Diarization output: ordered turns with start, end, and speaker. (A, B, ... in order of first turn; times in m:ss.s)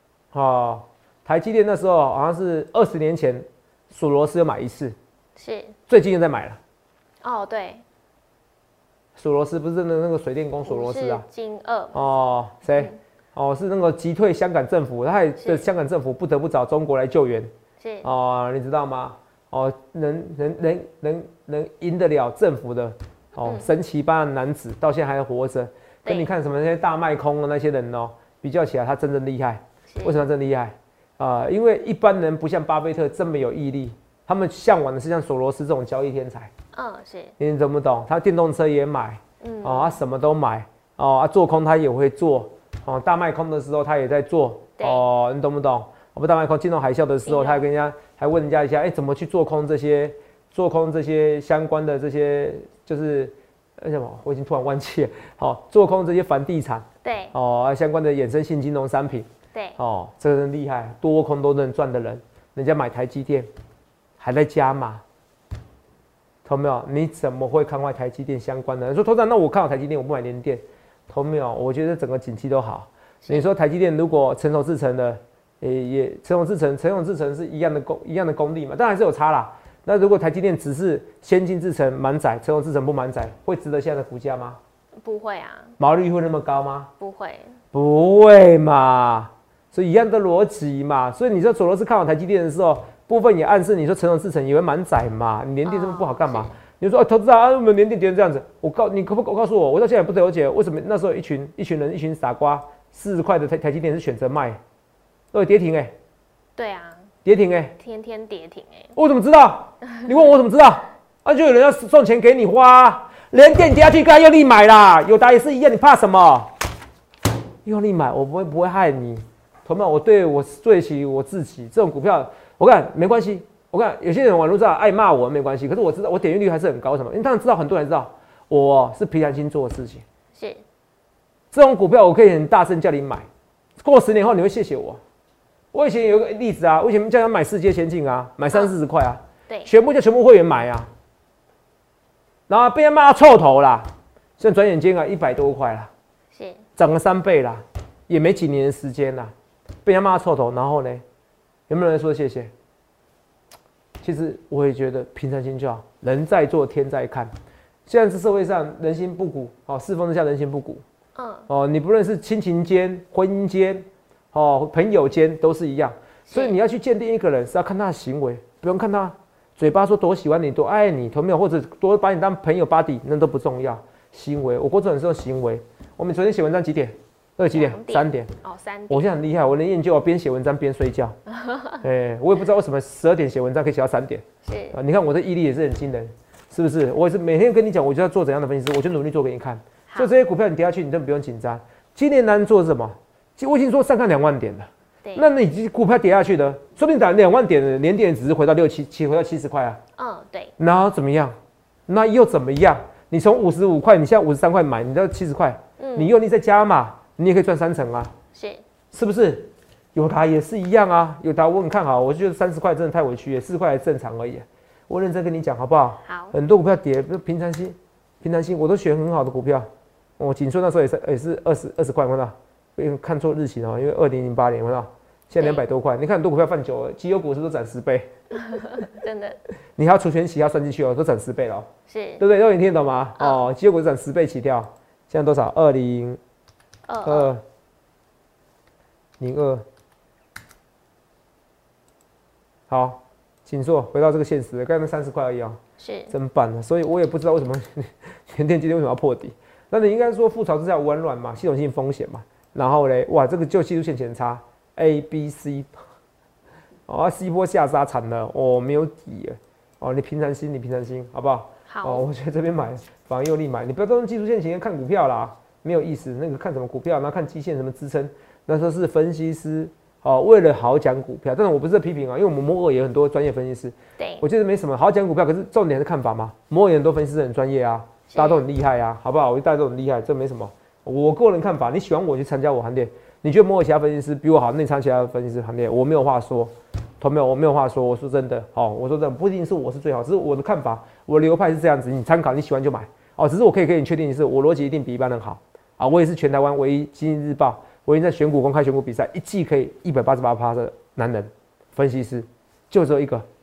0:00.3-0:05.0 A
0:05.4-0:05.8 B
0:05.9-0:06.6 A
0:07.2-0:07.8 B
0:09.2-0:11.2 A
0:10.6-0:12.1 B
0:11.9-0:17.5 A
0:15.4-0:15.6 B
0:17.8-0:18.1 B
0:18.0-0:36.5 A
0:23.4-0:23.7 B
0:26.0-0:26.3 B
0:29.9-0:30.2 B
0:36.7-0:37.3 B
0:37.4-1:03.5 A
0:39.4-0:40.0 B
0:44.8-0:45.0 B
0:47.2-0:47.6 B
0:57.0-0:57.3 B
0:59.5-0:59.8 B
1:04.2-1:05.0 A
1:06.4-1:24.6 A
1:25.0-1:25.7 B
1:25.8-1:26.9 A
1:27.0-1:27.6 B
1:27.7-1:44.6 A
1:35.6-1:36.5 B
1:45.3-1:45.9 A
1:46.6-1:47.1 B
1:47.2-1:47.7 A
1:47.8-1:48.9 B
1:49.0-1:56.5 A
1:57.6-2:10.0 A
2:10.4-2:10.6 B
2:11.5-2:13.2 A
2:13.8-2:15.0 A
2:15.7-2:20.9 A
2:22.5-2:25.9 A
2:26.3-2:26.6 B
2:26.8-2:29.3 A
2:29.8-2:31.0 A
2:31.7-2:32.5 A
2:34.0-2:37.3 A
2:37.8-2:40.8 A
2:41.2-2:41.5 B
2:41.5-2:58.3 A
2:46.3-2:46.6 B
2:57.5-2:59.1 B
2:58.9-3:01.1 A
3:01.3-3:01.8 B
3:01.8-3:19.8 A
3:04.4-3:04.8 B
3:20.0-3:20.5 B
3:20.6-3:21.3 A
3:21.9-3:28.1 A
3:25.8-3:26.1 B
3:28.3-3:28.6 B
3:28.9-3:39.6 A
3:36.0-3:36.3 B
3:40.2-3:48.1 A
3:45.4-3:45.6 B
3:48.3-3:49.4 B
3:49.8-3:51.7 A
3:51.9-3:52.2 B
3:52.2-3:56.2 A
3:56.9-3:57.3 B
3:57.0-3:57.4 A
3:59.2-3:59.6 A
4:02.7-4:05.6 A
4:05.8-4:06.1 B
4:06.1-4:15.8 A
4:16.9-5:03.2 A
4:21.7-4:22.1 B
4:34.0-4:34.2 B
4:38.1-4:38.4 B